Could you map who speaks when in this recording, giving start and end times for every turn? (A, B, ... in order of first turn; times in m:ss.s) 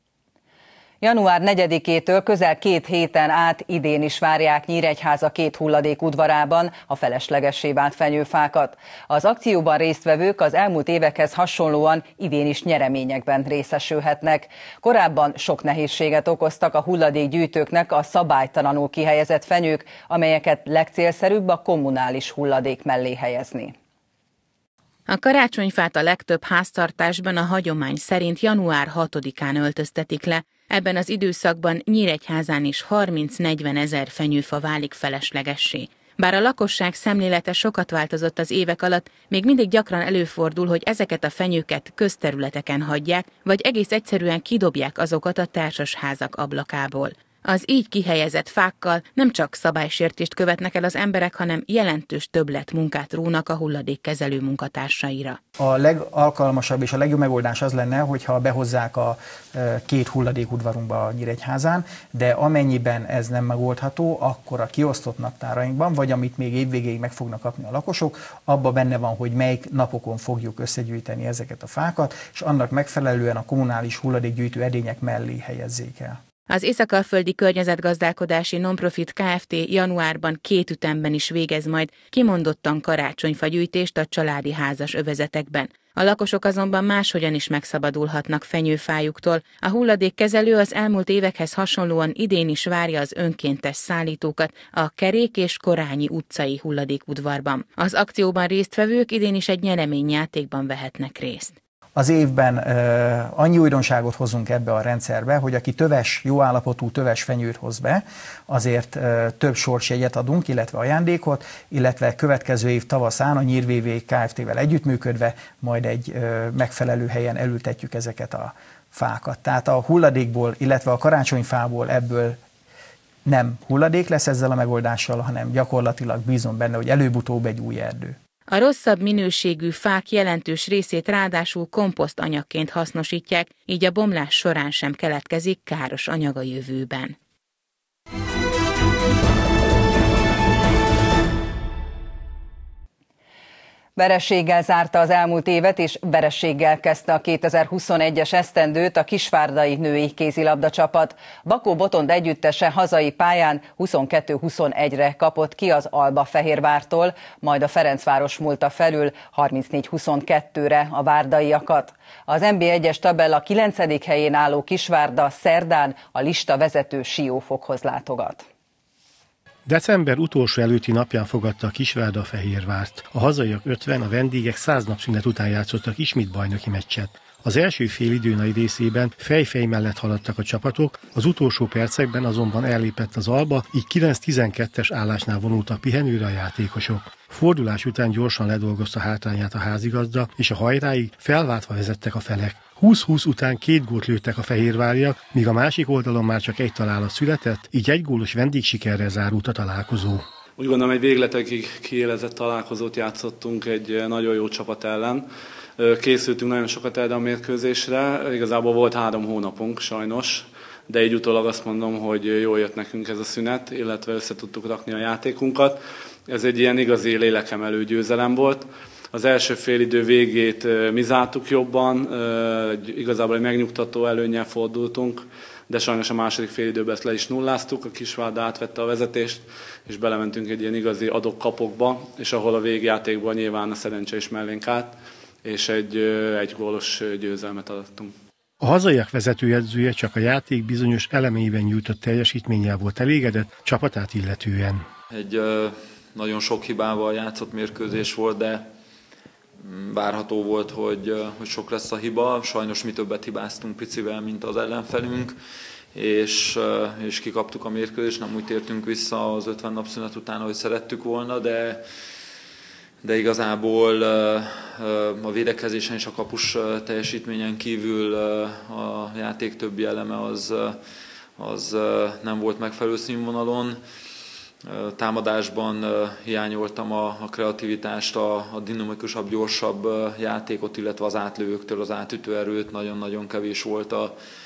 0:01.0-0:23.7 A
0:25.1-0:55.4 B
0:55.6-1:16.2 C
1:16.5-1:41.6 B
1:42.0-2:02.4 C
2:03.2-2:08.2 C
2:08.5-2:17.2 B
2:24.0-2:48.4 A
2:49.7-3:20.2 D
3:20.6-3:58.2 E
3:58.6-4:04.9 D
4:05.1-4:08.7 F
4:09.6-4:15.4 F
4:15.9-4:21.8 F
4:23.0-4:30.8 F
4:31.4-4:33.8 F
4:34.6-4:44.2 F